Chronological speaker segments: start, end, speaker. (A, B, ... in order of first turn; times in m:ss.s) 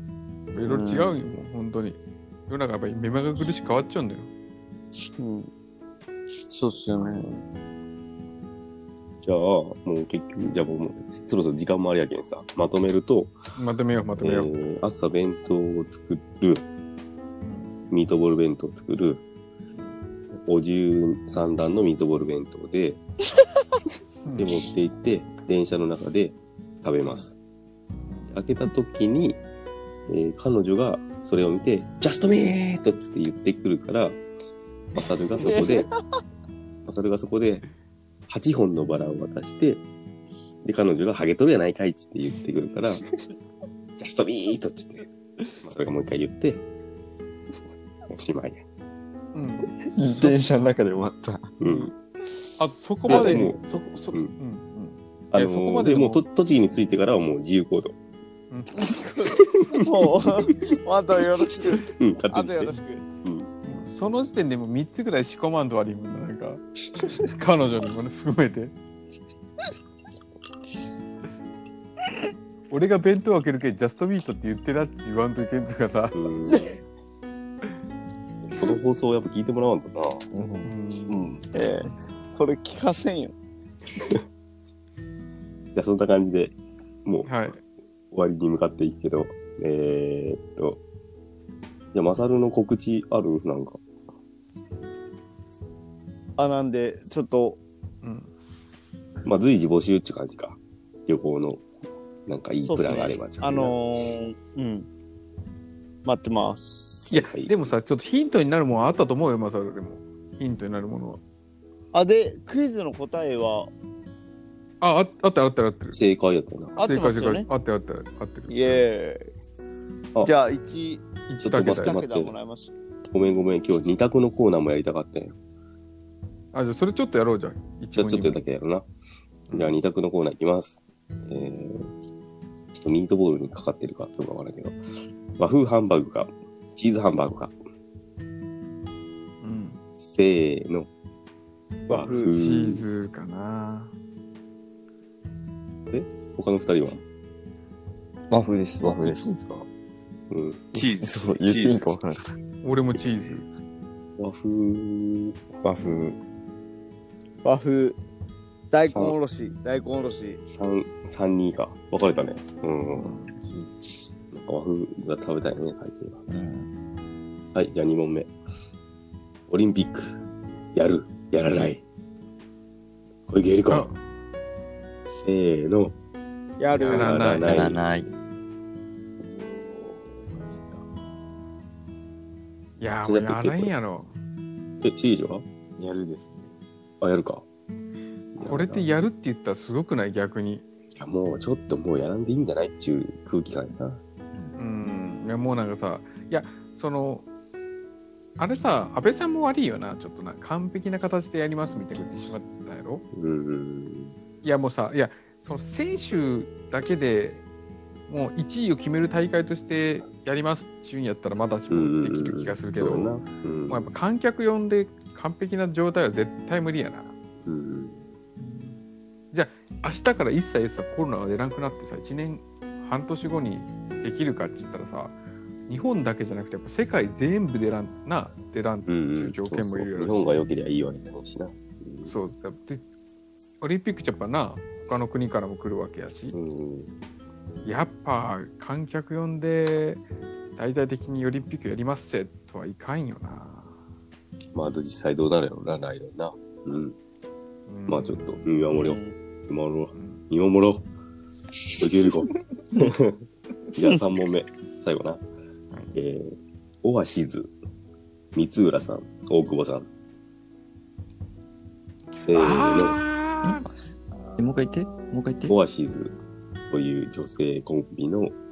0:00.5-0:04.3 A
0:00.7-0:01.2 B
0:05.2-0:05.5 B
0:06.5-0:07.4 B
0:09.2-0:13.3 C
0:13.6-0:14.5 A
0:14.2-0:16.6 C
0:17.9-0:19.2 C
0:20.4-0:23.0 C
0:24.2-0:24.5 A
0:24.4-0:27.3 C
0:28.3-0:29.4 C
0:30.1-0:34.2 C
0:34.9-0:35.9 C
0:35.4-0:35.9 B
0:36.8-0:37.6 C
0:38.3-0:39.8 C
0:40.6-0:43.0 C
0:44.0-0:45.1 C
0:45.6-0:46.6 C
0:48.1-0:48.6 C
0:49.3-0:50.4 A
0:49.8-0:51.6 D
0:51.6-0:51.9 C
0:52.6-0:56.2 A
0:53.1-0:53.6 C
0:55.3-0:57.9 C
0:58.5-0:58.9 A
0:58.8-1:03.1 B
0:59.4-1:00.3 C
1:02.0-1:03.5 C
1:03.6-1:08.7 A
1:12.7-1:16.2 A
1:16.1-1:16.7 C
1:18.4-1:20.3 C
1:20.3-1:20.7 D
1:20.6-1:21.3 A
1:21.1-1:21.5 C
1:21.5-1:23.3 B
1:25.7-1:27.5 C
1:27.2-1:27.6 A
1:28.1-1:30.8 C
1:31.9-1:33.8 C
1:36.4-1:37.6 B
1:38.0-1:38.3 A
1:39.2-1:41.6 C
1:42.3-1:43.7 C
1:42.6-1:44.9 B
1:46.0-1:47.1 B
1:47.1-1:51.2 A
1:47.1-1:47.6 C
1:51.9-1:53.7 B
1:54.8-1:56.0 A
1:55.9-1:56.8 C
1:56.8-1:57.5 B
1:56.8-1:58.9 A
1:58.5-1:59.3 B
2:00.2-2:02.7 B
2:01.3-2:02.0 A
2:01.4-2:02.3 C
2:03.1-2:05.4 C
2:06.5-2:08.4 A
2:08.0-2:08.8 C
2:09.5-2:09.8 A
2:09.5-2:11.9 C
2:12.7-2:14.8 C
2:15.4-2:17.5 C
2:19.4-2:19.8 A
2:20.0-2:20.9 C
2:21.9-2:22.8 C
2:21.9-2:22.4 B
2:22.3-2:23.9 A
2:25.9-2:27.0 C
2:28.3-2:29.6 D
2:30.3-2:30.7 C
2:30.7-2:31.8 E
2:31.0-2:32.3 D
2:32.6-2:33.5 A
2:34.2-2:36.2 C
2:37.4-2:38.0 B
2:38.7-2:40.4 B
2:38.8-2:39.2 C
2:40.4-2:43.2 C
2:44.3-2:46.2 C
2:46.3-2:46.7 D
2:47.5-2:48.3 C
2:49.5-2:50.2 C
2:50.7-2:51.8 C
2:53.3-2:53.9 C
2:53.7-2:54.0 A
2:55.1-2:56.0 C
2:56.6-2:57.2 B
2:56.8-2:57.8 C
2:56.9-2:57.6 A
2:57.4-2:58.1 D
2:59.2-3:00.8 E
3:02.8-3:04.1 A
3:03.0-3:03.7 C
3:04.8-3:05.4 C
3:05.8-3:06.5 E
3:07.0-3:07.4 C
3:08.4-3:08.9 C
3:08.4-3:10.6 A
3:10.9-3:14.0 C
3:14.6-3:17.2 A
3:18.4-3:23.0 A
3:23.1-3:24.1 C
3:24.4-3:27.4 A
3:28.1-3:33.2 A
3:31.7-3:33.9 C
3:33.7-3:37.1 A
3:37.4-3:38.0 C
3:38.4-3:38.7 A
3:39.3-3:45.2 A
3:45.7-3:50.4 A
3:48.9-3:52.2 C
3:52.0-3:52.8 A
3:53.6-3:56.4 A
3:56.3-3:56.9 C
3:57.6-4:00.0 A
4:00.6-4:03.8 A
4:04.5-4:07.0 C
4:07.7-4:08.5 A
4:07.9-4:10.9 C
4:08.7-4:09.1 B
4:11.8-4:13.2 C
4:13.7-4:15.2 C
4:15.9-4:17.5 C
4:18.3-4:19.9 C
4:22.2-4:23.7 A
4:22.2-4:23.0 C
4:23.4-4:25.5 D
4:25.5-4:26.1 C
4:26.7-4:28.4 C